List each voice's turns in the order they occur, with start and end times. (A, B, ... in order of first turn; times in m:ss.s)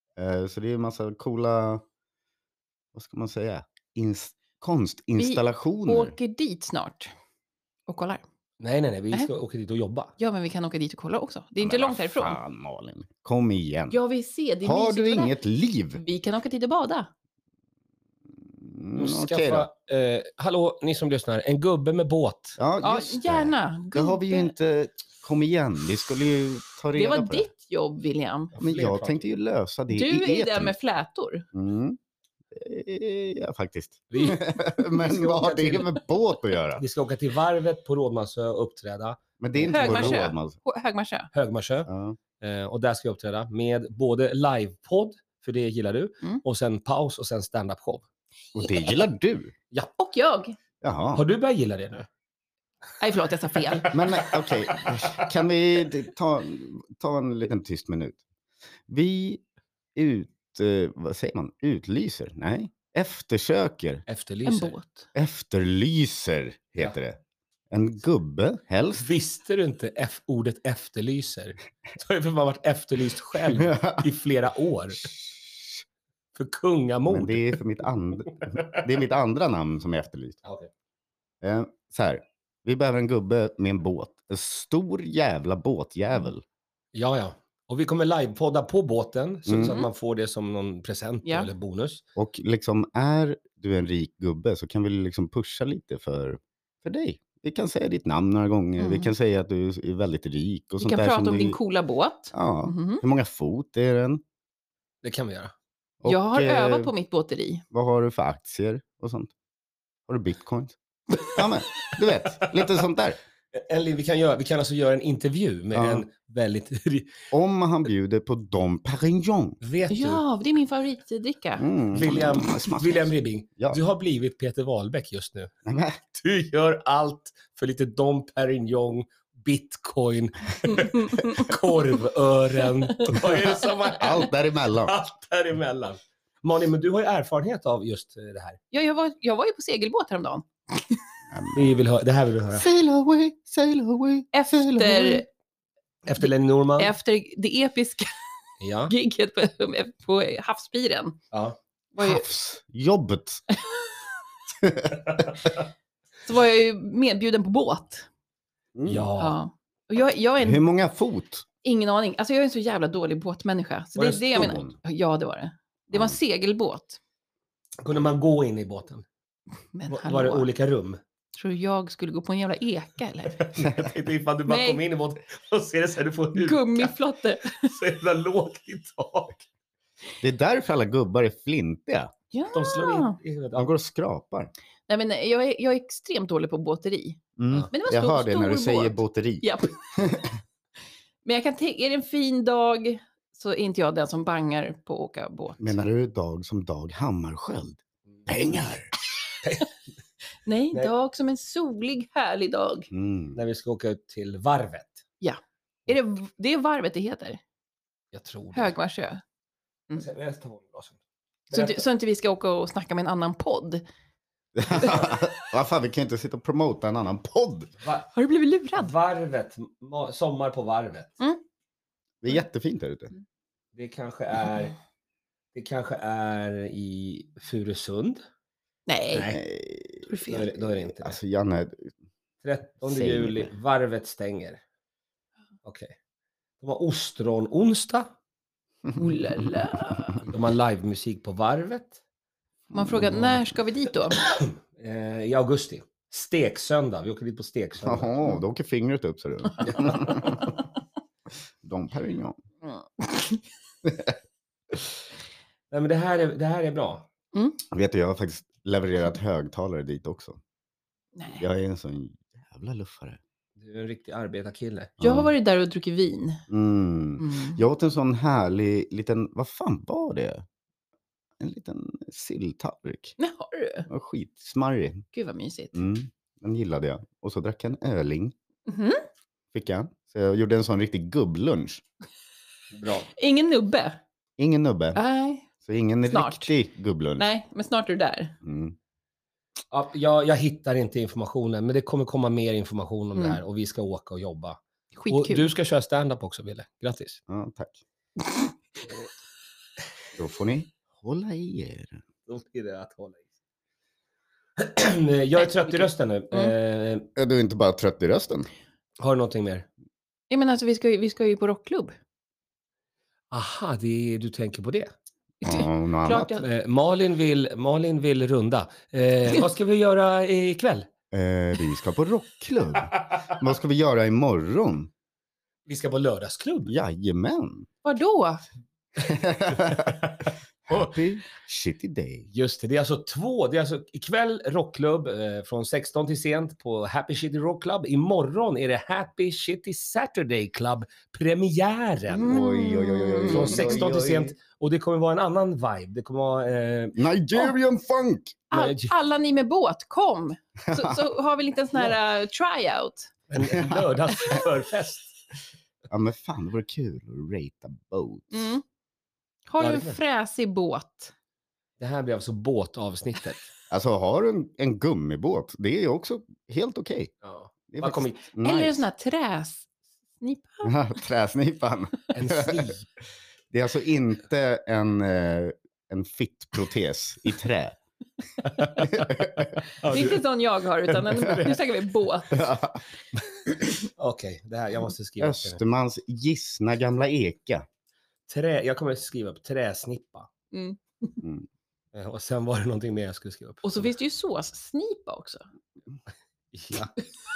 0:00.2-0:01.8 A
0:02.9-0:06.1 A
0:05.2-0:07.1 B
0:07.9-0:08.2 B
0:08.6-0:10.1 C
0:10.2-0:12.4 B
0:11.6-0:14.0 A
0:13.9-0:15.3 B
0:14.6-0:16.0 A
0:16.0-0:17.1 B
0:18.5-0:19.7 A
0:19.0-0:22.6 C
0:22.6-0:27.5 A
0:22.8-0:24.5 B
0:26.9-0:28.5 B
0:28.5-0:29.2 C
0:28.6-0:30.7 A
0:29.9-0:31.4 B
0:31.5-0:32.0 A
0:32.5-0:36.8 A
0:34.1-0:36.0 C
0:36.8-0:40.2 C
0:39.4-0:40.6 A
0:39.7-0:41.3 B
0:41.3-0:41.9 C
0:41.9-0:42.2 A
0:42.4-0:48.0 C
0:48.5-0:49.5 A
0:50.0-0:50.5 B
0:50.8-0:51.2 A
0:51.1-0:52.1 C
0:53.0-0:54.0 B
0:53.7-0:55.3 C
0:53.9-0:58.2 A
0:58.9-0:59.4 A
0:59.9-1:04.0 A
1:04.1-1:04.7 C
1:04.4-1:05.1 B
1:05.1-1:07.2 A
1:07.7-1:09.1 A
1:09.0-1:15.1 C
1:13.5-1:14.1 A
1:15.1-1:15.8 A
1:16.4-1:17.6 C
1:17.1-1:20.4 A
1:18.4-1:18.8 C
1:20.4-1:20.7 C
1:21.4-1:26.4 A
1:26.9-1:32.0 C
1:29.5-1:29.7 A
1:29.6-1:29.9 B
1:31.2-1:31.5 B
1:32.2-1:41.6 A
1:38.8-1:39.1 B
1:40.8-1:43.0 B
1:42.3-1:44.2 A
1:45.0-1:45.5 C
1:46.0-1:46.9 A
1:46.0-1:47.6 B
1:47.7-1:49.3 A
1:50.1-1:53.2 A
1:52.3-1:52.7 C
1:53.5-1:57.2 C
1:55.7-1:56.0 A
1:57.3-1:59.6 A
1:59.6-2:00.2 C
1:59.9-2:01.7 B
2:01.6-2:03.8 A
2:01.9-2:05.5 C
2:05.6-2:06.1 A
2:06.2-2:18.6 C
2:10.7-2:11.5 B
2:13.9-2:15.0 A
2:18.7-2:21.0 B
2:21.3-2:21.7 A
2:21.5-2:22.7 C
2:22.5-2:25.2 A
2:24.3-2:25.2 B
2:26.0-2:26.9 C
2:26.2-2:28.2 B
2:28.6-2:28.9 C
2:28.9-2:31.2 B
2:31.3-2:31.6 C
2:31.9-2:32.2 B
2:32.0-2:33.4 A
2:34.6-2:35.2 A
2:36.2-2:38.1 B
2:38.7-2:39.1 A
2:38.8-2:39.4 C
2:39.2-2:40.6 B
2:40.4-2:41.4 A
2:41.6-2:47.0 B
2:44.0-2:44.6 C
2:44.4-2:44.7 A
2:47.8-2:49.0 C
2:49.7-2:50.5 B
2:49.9-2:51.0 C
2:51.4-2:53.5 B
2:53.4-2:56.9 C
2:54.5-2:54.8 B
2:56.3-2:57.7 B
2:57.5-2:59.4 C
3:00.2-3:02.1 A
3:02.3-3:03.2 B
3:02.5-3:03.7 C
3:03.5-3:04.5 A
3:04.9-3:07.2 B
3:07.4-3:10.3 A
3:07.7-3:10.1 B
3:11.2-3:15.8 B
3:15.6-3:18.9 A
3:19.4-3:19.7 C
3:20.4-3:22.9 B
3:22.9-3:23.4 A
3:23.3-3:25.0 C
3:25.2-3:27.4 B
3:28.1-3:28.7 C
3:28.5-3:29.2 B
3:30.0-3:31.0 C
3:31.5-3:31.8 C
3:31.5-3:33.8 B
3:34.6-3:37.7 A
3:37.8-3:38.1 C
3:38.1-3:38.9 B
3:38.7-3:41.2 C
3:42.2-3:43.1 A
3:43.7-3:44.7 C
3:45.5-3:48.2 C
3:48.9-3:49.3 B
3:49.1-3:49.4 C
3:49.3-3:51.9 A
3:50.1-3:50.4 B
3:50.2-3:51.2 C
3:52.4-3:54.6 C
3:52.8-3:53.5 A
3:55.6-3:55.9 C
3:56.6-3:58.1 C
3:58.9-3:59.5 A
3:58.9-4:00.2 B
4:00.2-4:02.0 C
4:02.7-4:04.2 B
4:02.7-4:03.0 A
4:03.0-4:03.4 C
4:04.2-4:08.1 C
4:07.8-4:10.6 A
4:09.6-4:10.3 C
4:11.6-4:12.4 A
4:12.6-4:13.4 B
4:13.8-4:14.1 A
4:15.7-4:17.0 C
4:17.3-4:17.6 B
4:17.7-4:20.4 A
4:21.2-4:21.4 B
4:21.4-4:23.2 A
4:23.6-4:24.9 C
4:25.0-4:25.3 A
4:25.0-4:26.4 B
4:26.5-4:30.4 A
4:27.2-4:27.6 B
4:31.4-4:33.1 A
4:33.2-4:33.9 B
4:33.9-4:35.0 A
4:35.1-4:35.8 B
4:35.7-4:38.3 A
4:38.7-4:39.0 B
4:39.5-4:41.8 A
4:42.7-4:43.1 C
4:43.1-4:44.0 B
4:44.4-4:45.0 A
4:44.9-4:45.5 B
4:45.6-4:47.3 A
4:46.1-4:46.5 B
4:47.2-4:48.4 B
4:48.4-4:48.8 A
4:49.7-4:54.6 C
4:53.1-4:53.4 B
4:55.0-4:55.5 B
4:55.1-4:57.2 C
4:57.3-4:57.8 A
5:00.2-5:02.0 A
5:02.3-5:03.2 C
5:04.6-5:07.1 C
5:05.4-5:06.5 B
5:07.2-5:08.5 A
5:09.0-5:09.7 C
5:10.3-5:11.9 B
5:13.3-5:14.9 C
5:15.4-5:16.4 A
5:15.4-5:16.4 B
5:16.4-5:20.9 C
5:21.1-5:24.9 A
5:25.6-5:26.7 C
5:26.7-5:27.7 A
5:27.8-5:28.4 B
5:29.0-5:30.0 A
5:29.6-5:30.9 C
5:30.6-5:32.3 A
5:32.3-5:42.4 C
5:42.2-5:43.9 B
5:42.2-5:44.3 A
5:43.3-5:47.0 C
5:46.9-5:48.4 A
5:48.5-5:53.1 B
5:48.5-5:48.9 C
5:50.6-5:51.0 A
5:53.3-5:55.2 C
5:53.4-5:53.9 A
5:55.9-5:58.5 A
5:58.3-5:58.6 B
5:59.5-6:01.1 B
5:59.6-6:00.0 C
6:01.8-6:03.4 C
6:03.7-6:07.1 A
6:07.2-6:08.3 C
6:07.7-6:08.8 A
6:08.4-6:09.7 B
6:10.2-6:10.7 B
6:10.6-6:12.7 A
6:12.1-6:12.8 C
6:13.5-6:17.8 A
6:18.4-6:20.2 C
6:18.9-6:19.4 A
6:19.8-6:22.5 B
6:20.9-6:21.5 C
6:22.3-6:23.2 A
6:24.0-6:25.6 C
6:25.2-6:27.6 A
6:28.3-6:30.3 C
6:30.5-6:31.2 B
6:31.9-6:33.9 C
6:33.6-6:35.4 B
6:36.5-6:36.9 C